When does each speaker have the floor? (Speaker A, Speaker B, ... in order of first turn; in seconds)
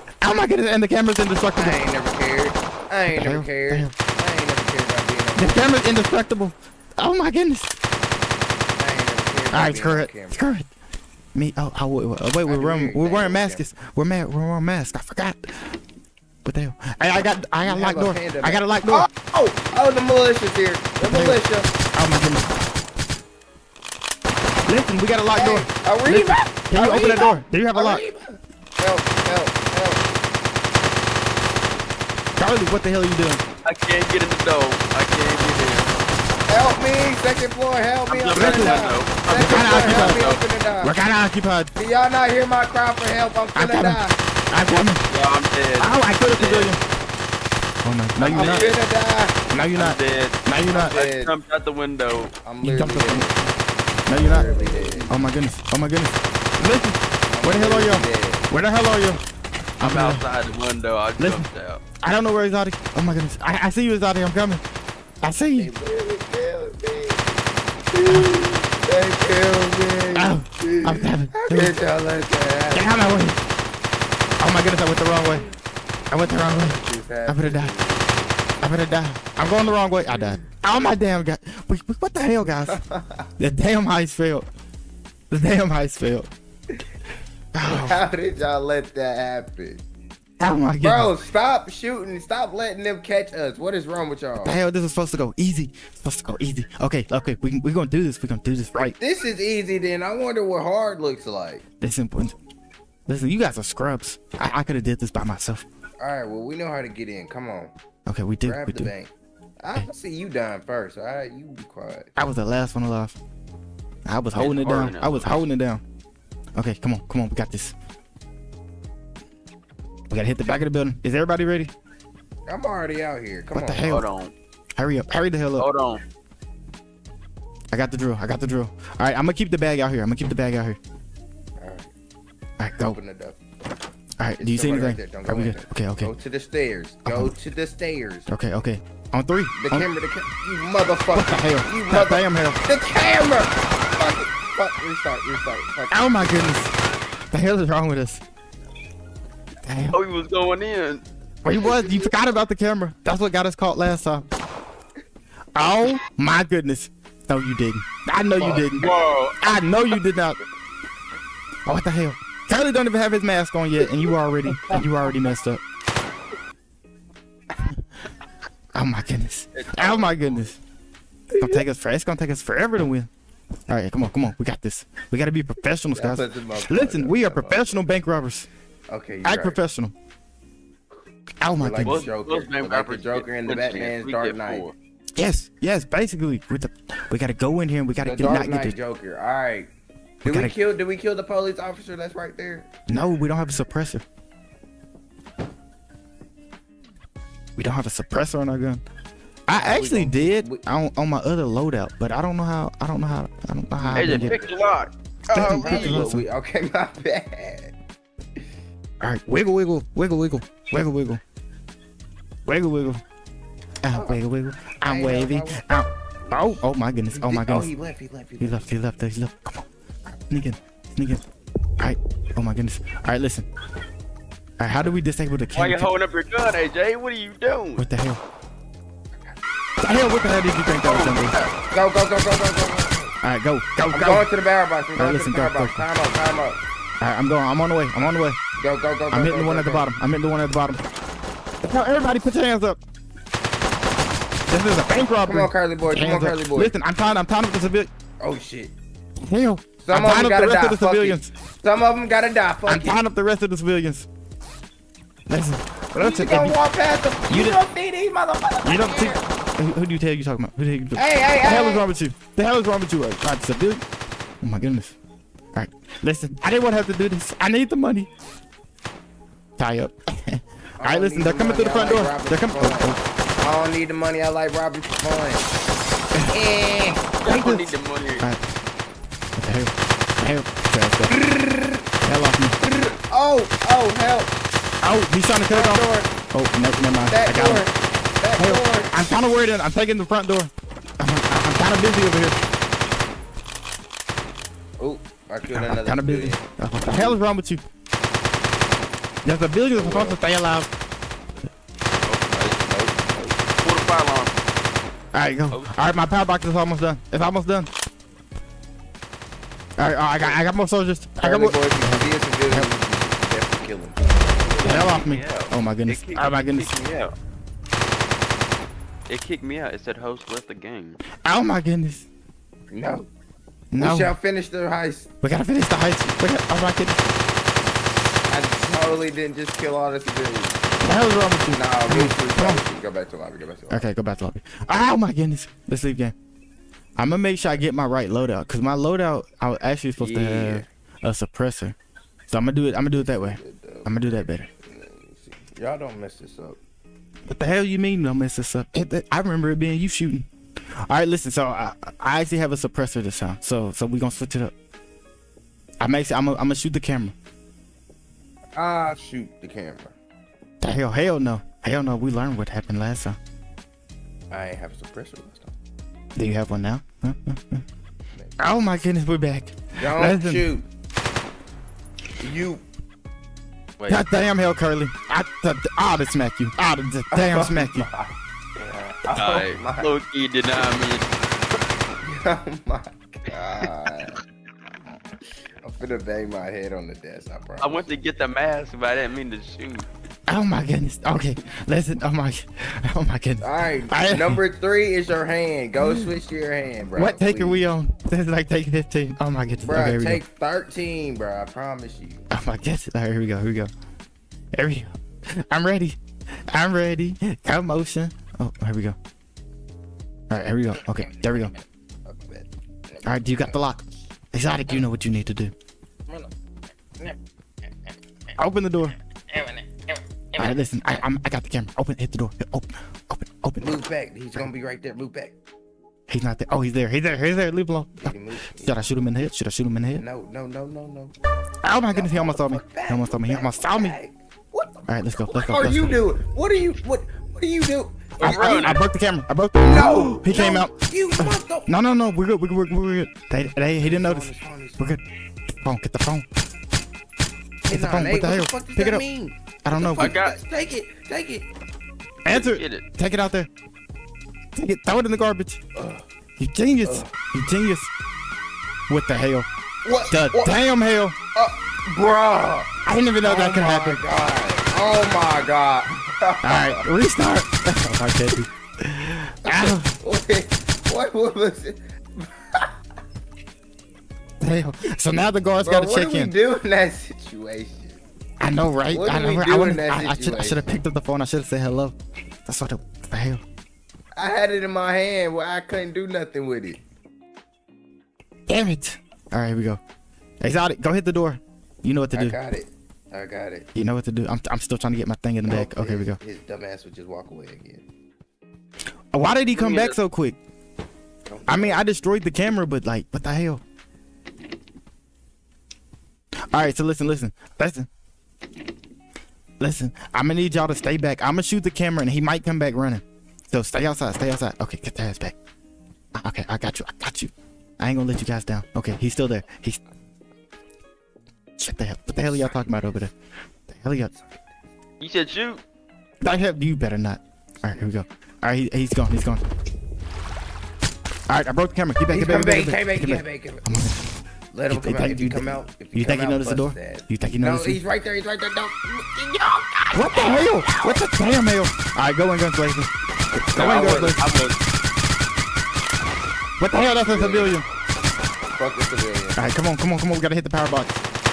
Speaker A: 0.2-1.8, 3.1-3.9, 5.4-7.7, 9.5-10.7, 11.3-15.7, 16.4-19.1, 21.0-21.4, 21.9-22.5, 24.6-28.0, 32.4-33.4, 38.3-40.2, 40.8-41.7, 43.5-45.0, 45.8-46.8, 47.8-48.6, 49.5-50.9, 52.6-53.3, 54.1-54.5, 55.1-59.2, 59.8-60.2, 61.2-61.5, 62.0-64.6, 65.2-65.7, 68.1-68.6, 70.2-71.7, 72.7-73.4, 74.4-75.5, 76.1-77.7, 78.6-82.8, 83.4-84.5, 85.3-86.3, 87.5-88.0, 90.4-91.1, 94.4-98.9, 101.8-102.3, 103.1-105.6, 108.1-108.9, 112.2-113.2, 114.0-115.8, 116.5-117.7, 120.1-121.7, 123.5-124.0, 124.8-125.7, 127.7-130.8, 132.6-133.0, 134.2-136.1, 137.1-137.3, 138.3-139.9, 141.1-142.6, 145.9-146.7, 147.3-148.2, 149.6-150.0, 151.4-154.2, 155.5-158.9, 159.4-160.4, 161.7-165.6, 168.7-170.6, 171.3-173.1, 173.7-178.5, 179.2-179.9, 181.4-182.1, 185.2-188.7, 190.2-190.5, 192.9-194.0, 197.6-198.8, 199.5-204.4, 205.3-206.2, 209.0-211.2, 212.4-213.0, 213.8-217.7, 218.4-221.2, 221.8-223.4, 224.6-225.9, 227.8-228.2, 229.8-231.4, 233.2-234.3, 234.9-235.8, 237.0-238.4, 239.1-240.8, 241.6-242.8, 244.5-247.9, 249.2-251.3, 252.7-254.1, 255.3-256.6, 257.3-257.6, 258.6-263.8, 264.4-264.9, 265.5-268.1, 269.6-273.0, 277.2-278.4, 279.4-281.1, 282.0-282.5, 284.8-287.6, 288.4-292.4, 295.5-297.6, 299.2-300.7, 305.1-307.7, 309.8-312.7, 314.6-316.7, 321.2-322.1, 323.7-324.1, 325.2-327.0, 330.8-332.6, 333.7-336.1, 337.0-341.8, 342.3-344.5, 347.3-350.3, 350.8-354.5, 355.8-357.1, 360.6-363.2, 366.1-367.6, 368.4-370.4, 373.9-377.9, 390.3-394.4, 395.8-396.1, 396.9-400.2, 402.3-403.7, 404.5-406.0, 406.5-408.9, 410.3-411.5, 413.0-415.5, 418.4-418.9, 420.4-423.8, 426.1-430.0, 431.6-433.9, 434.9-436.0, 438.2-446.3, 447.7-449.0, 449.6-450.1, 452.2-453.5, 454.5-455.6, 456.4-457.9, 458.9-459.5, 460.1-461.1, 462.8-464.0, 466.4-469.9, 474.4-476.3, 478.4-483.4, 488.5-489.8, 490.4-492.4, 493.7-496.2, 499.1-500.4, 501.5-503.6, 506.5-507.9, 509.6-515.3, 516.1-519.8, 521.6-523.1, 523.7-524.1, 526.2-529.4, 531.3-534.0, 534.7-537.8, 539.9-544.2, 546.6-547.6, 549.4-551.0
Speaker B: 1.6-5.7, 8.8-10.5, 12.4-13.6, 17.6-21.7, 25.3-30.2, 36.5-40.9, 41.8-44.2, 48.3-49.4, 50.7-51.3, 52.4-53.5, 54.1-55.1, 57.3-58.5, 65.5-73.0, 76.4-78.0, 82.7-83.3, 87.6-89.8, 90.8-94.6, 98.8-101.6, 106.0-107.7, 108.4-112.1, 122.5-124.0, 131.6-131.9, 132.8-133.4, 134.4-138.3, 139.5-146.6, 158.4-158.6, 175.9-177.8, 178.9-179.6, 181.6-184.7, 188.0-189.7, 190.2-192.7, 199.5-200.6, 203.8-204.5, 205.5-207.7, 213.9-214.2, 214.8-215.7, 217.1-218.6, 231.7-233.1, 233.9-236.6, 238.6-239.9, 245.2-246.7, 248.2-248.7, 249.8-252.9, 255.9-259.2, 260.9-261.9, 270.8-275.5, 276.3-277.1, 281.1-281.8, 282.6-284.4, 285.5-286.1, 287.0-288.9, 294.8-297.2, 299.7-300.2, 302.3-303.4, 311.2-314.0, 322.7-323.1, 323.8-325.1, 328.3-330.6, 331.5-333.9, 343.0-343.9, 344.6-346.6, 358.6-359.9, 364.3-365.5, 369.7-370.6, 372.2-372.6, 377.1-379.9, 382.0-384.2, 385.6-387.9, 393.4-397.6, 399.6-402.3, 412.1-413.6, 419.3-419.8, 423.6-425.3, 428.0-428.8, 429.9-431.1, 431.9-438.8, 439.6-441.7, 443.8-444.8, 447.6-451.5, 455.8-456.0, 456.8-457.1, 459.8-460.5, 461.3-462.7, 463.2-466.9, 469.4-472.7, 475.6-478.0, 478.9-480.6, 484.1-486.8, 492.1-493.7, 495.4-497.8, 501.3-501.8, 532.1-533.7, 534.5-541.0, 543.5-544.1, 547.0-547.6, 548.5-549.4
Speaker C: 33.6-36.0, 38.1-40.4, 45.1-46.8, 48.2-48.8, 49.8-52.4, 59.8-61.8, 114.3-115.3, 123.8-124.3, 125.6-126.0, 149.9-151.0, 158.4-159.5, 169.5-170.2, 181.8-184.7, 203.9-206.0, 225.5-227.8, 230.8-231.5, 277.2-278.3, 302.1-302.6, 303.6-304.4, 305.5-305.8, 314.5-317.1, 319.1-321.0, 340.0-340.6, 373.8-374.0, 379.1-381.1, 387.6-389.9, 438.2-438.8, 449.8-450.4, 452.2-452.8, 499.5-500.0, 525.0-525.6, 543.5-544.6